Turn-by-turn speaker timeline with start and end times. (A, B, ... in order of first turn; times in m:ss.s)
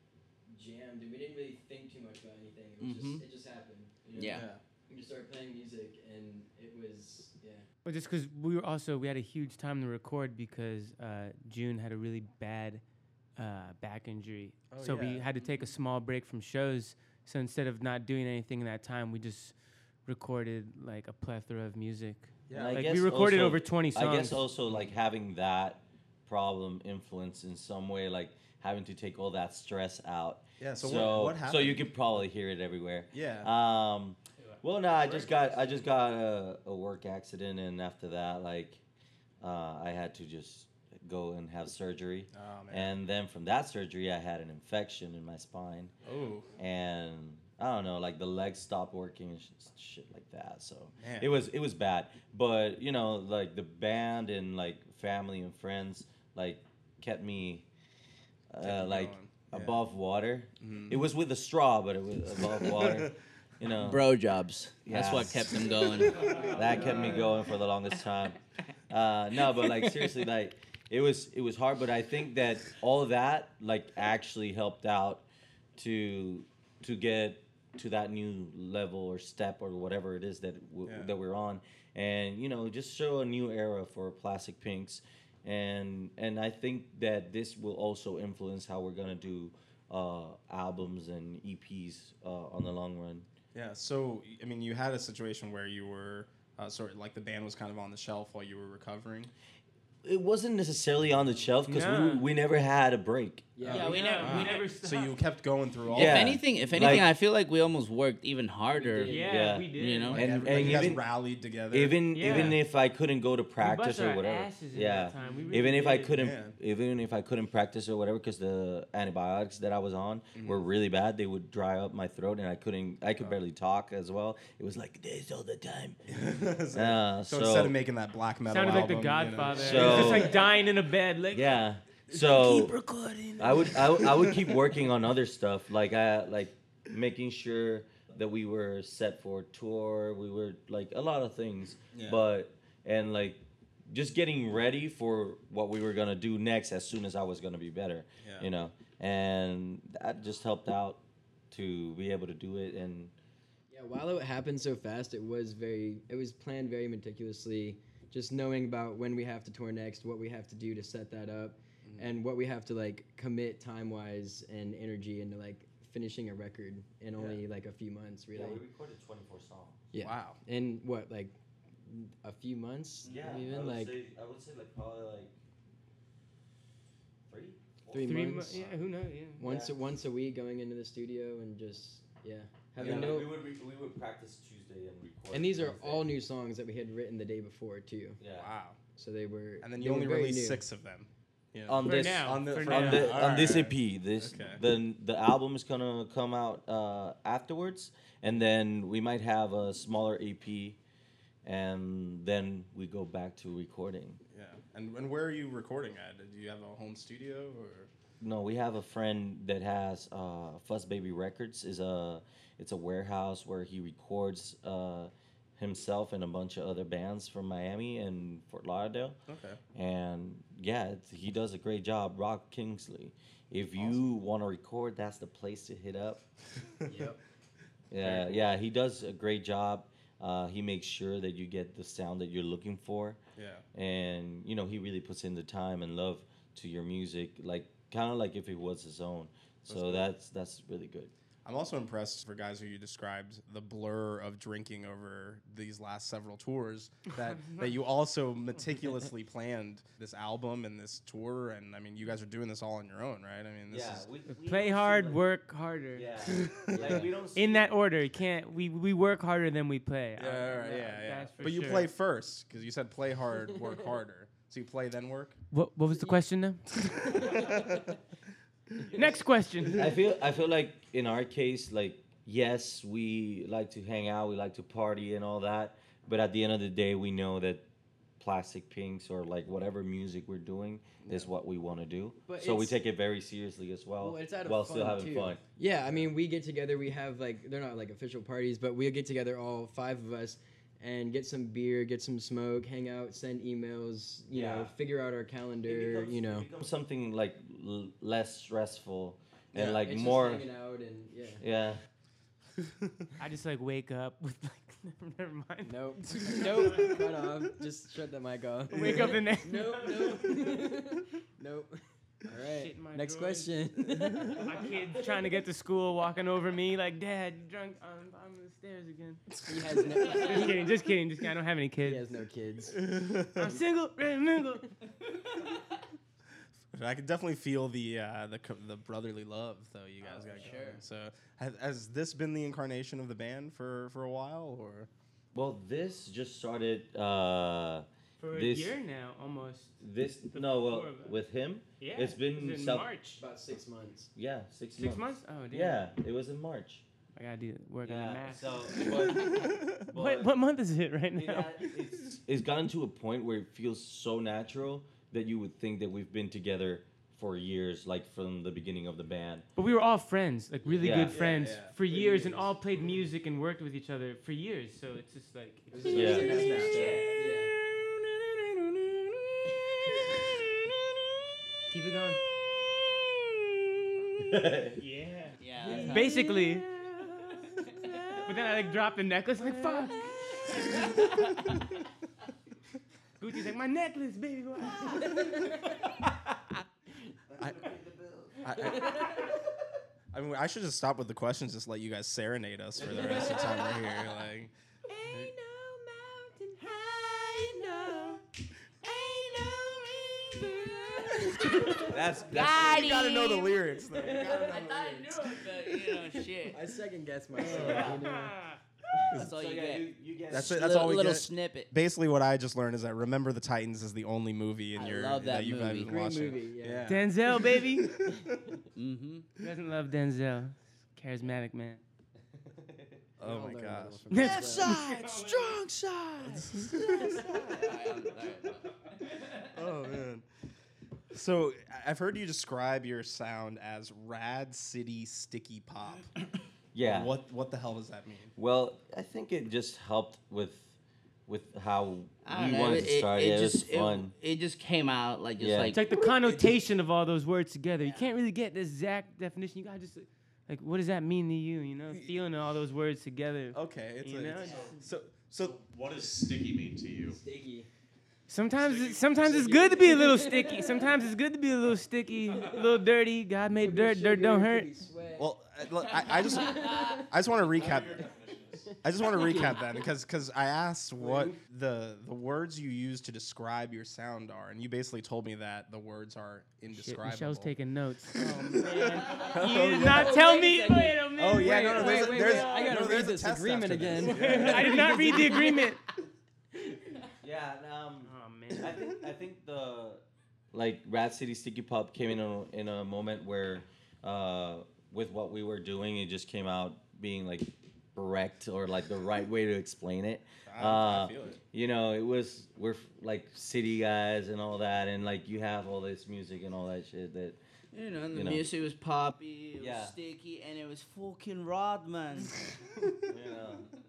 0:00.5-0:07.7 A
0:02.8-0:03.2 B
0:04.2-0:04.5 B
0:04.3-0:04.6 C
0:07.8-0:12.8 D
0:13.4-0:19.6 D
0:14.7-0:15.3 C
0:15.4-0:15.7 B
0:20.1-0:24.4 D
0:22.5-0:22.9 C
0:22.5-0:38.8 E
0:30.6-0:31.9 C
0:33.1-0:33.5 C
0:39.4-0:45.9 E
0:42.3-0:42.9 C
0:46.0-0:46.5 C
0:46.6-0:57.7 E
0:51.0-0:51.4 C
0:58.5-1:04.1 E
0:58.6-0:59.8 C
1:00.6-1:01.0 C
1:02.6-1:03.1 C
1:03.7-1:06.8 B
1:04.9-1:15.2 E
1:06.0-1:07.2 C
1:06.2-1:07.3 D
1:09.5-1:10.1 B
1:15.8-1:33.3 E
1:20.9-1:21.1 C
1:33.5-1:39.3 C
1:40.0-1:43.5 E
1:41.7-1:42.2 D
1:43.6-1:44.0 A
1:43.6-1:47.1 C
1:43.7-1:44.7 B
1:43.8-1:45.2 D
1:45.9-1:49.2 B
1:45.9-1:47.1 E
1:48.7-1:49.5 A
1:49.0-1:50.9 D
1:49.2-1:51.1 E
1:49.8-1:50.2 B
1:50.1-1:52.6 C
1:51.7-2:06.0 E
1:52.1-1:52.6 D
1:53.6-1:56.2 D
1:55.3-1:56.5 C
2:00.4-2:00.7 C
2:06.1-2:10.5 C
2:06.7-2:07.8 E
2:08.5-2:11.6 D
2:09.5-2:10.4 E
2:11.3-2:12.8 E
2:12.2-2:14.4 D
2:13.4-2:33.1 E
2:21.9-2:22.2 C
2:28.2-2:28.5 C
2:33.7-2:48.6 A
2:41.8-2:42.1 C
2:47.2-2:47.4 C
2:48.3-2:49.8 E
2:49.9-2:54.0 A
2:50.0-2:50.4 C
2:53.0-2:53.4 B
2:53.0-2:55.3 E
2:57.3-2:58.7 E
2:57.9-2:58.6 A
2:58.0-2:59.4 D
2:59.4-3:03.4 A
2:59.4-2:59.8 E
3:02.8-3:03.2 C
3:02.8-3:06.1 E
3:05.3-3:08.2 A
3:08.2-3:08.5 E
3:08.3-3:08.8 C
3:09.0-3:10.6 A
3:09.6-3:14.6 C
3:11.7-3:20.8 E
3:11.8-3:13.5 D
3:21.4-3:24.2 E
3:24.3-3:27.9 C
3:28.2-3:39.2 E
3:39.3-3:39.6 C
3:39.7-3:46.2 E
3:43.8-3:44.0 C
3:46.8-3:47.1 C
3:46.9-3:47.2 A
3:47.9-3:53.2 E
3:48.0-3:48.5 C
3:53.4-3:53.6 C
3:53.7-4:01.1 E
3:59.7-4:00.1 C
4:01.4-4:14.1 C
4:07.4-4:07.7 D
4:13.7-4:15.2 E
4:14.3-4:16.1 D
4:15.9-4:17.7 E
4:16.5-4:17.1 C
4:16.6-4:17.1 A
4:17.3-4:21.9 D
4:20.2-4:25.4 C
4:25.5-4:27.4 D
4:27.0-4:27.8 A
4:27.0-4:27.8 C
4:28.9-4:29.2 A
4:28.9-4:30.0 D
4:29.7-4:37.6 E
4:38.2-4:45.4 E
4:41.0-4:41.3 C
4:42.3-4:42.8 A
4:44.0-4:56.5 A
4:45.7-4:46.1 C
4:54.3-4:54.7 E
4:55.6-5:00.5 E
4:59.6-4:59.8 C
4:59.6-5:01.4 A
5:01.4-5:01.8 E
5:03.2-5:06.9 D
5:05.6-5:14.5 A
5:06.2-5:07.0 C
5:08.7-5:10.7 D
5:08.8-5:09.2 C
5:12.4-5:19.2 D
5:19.5-5:20.7 A
5:20.0-5:22.0 D
5:21.8-5:22.8 A
5:22.7-5:23.5 C
5:23.4-5:24.7 D
5:26.7-5:34.9 C
5:30.0-5:30.8 B
5:35.3-5:38.8 E
5:38.2-5:39.8 D
5:39.8-5:42.9 E
5:40.3-5:41.1 D
5:41.8-5:43.2 D
5:43.2-5:44.1 A
5:44.2-5:46.9 E
5:44.8-5:45.9 D
5:47.2-5:51.8 D
5:47.8-5:50.4 E
5:48.9-5:49.8 C
5:51.1-5:59.5 E
5:59.6-6:09.3 D
6:00.8-6:01.2 E
6:00.8-6:02.5 C
6:05.7-6:07.5 A
6:05.7-6:07.0 C
6:05.9-6:06.4 E
6:11.7-6:12.2 D
6:14.2-6:14.8 E
6:14.8-6:21.6 D
6:15.4-6:16.2 B
6:15.6-6:16.1 A
6:23.2-6:26.6 D
6:27.3-6:28.8 E
6:27.4-6:27.7 C
6:28.4-6:29.3 C
6:30.1-6:34.5 C
6:32.8-6:33.8 E
6:34.9-6:38.2 D
6:35.0-6:35.3 C
6:38.8-6:41.9 D
6:41.3-6:41.9 C
6:41.8-6:43.0 E
6:42.3-6:46.6 B
6:42.5-6:45.2 C
6:46.5-6:48.4 A
6:47.4-6:48.0 E
6:47.4-6:47.9 C
6:48.0-6:48.6 D
6:49.1-6:51.7 B
6:49.3-6:50.9 E
6:50.3-6:58.5 C
6:54.7-6:56.2 B
6:55.8-6:56.9 A
6:56.8-6:57.9 D
6:58.8-6:59.3 B
6:59.4-7:01.8 D
7:02.4-7:03.0 E
7:03.2-7:05.3 C
7:03.2-7:04.7 A
7:04.1-7:05.6 D
7:04.4-7:06.2 E
7:06.2-7:07.5 C
7:06.3-7:06.7 D
7:07.0-7:07.8 E
7:07.3-7:08.8 B
7:09.5-7:10.3 C
7:11.1-7:16.2 C
7:16.7-7:17.1 E
7:16.8-7:18.3 C
7:18.4-7:20.8 E
7:21.3-7:24.1 E
7:22.2-7:25.8 B
7:25.4-7:25.8 E
7:25.7-7:34.8 D
7:25.8-7:26.6 C
7:31.9-7:32.2 C
7:33.5-7:35.6 C
7:35.4-7:37.2 F
7:37.0-7:37.7 A
7:38.3-7:44.7 D
7:38.5-7:39.8 F
7:39.2-7:40.9 A
7:43.6-7:45.3 A
7:45.2-7:48.1 C
7:46.2-7:47.1 A
7:47.3-7:48.8 F
7:48.8-7:57.5 C
7:51.0-7:51.3 A
7:56.7-8:03.1 D
7:58.2-8:00.3 C
7:59.6-8:05.7 A
8:01.2-8:05.3 C
8:04.0-8:05.8 D
8:07.2-8:27.4 E
8:08.1-8:08.7 D
8:20.5-8:21.4 C
8:27.7-8:32.4 B
8:28.1-8:28.5 E
8:29.6-8:30.0 E
8:32.6-8:33.0 C
8:33.1-8:33.7 E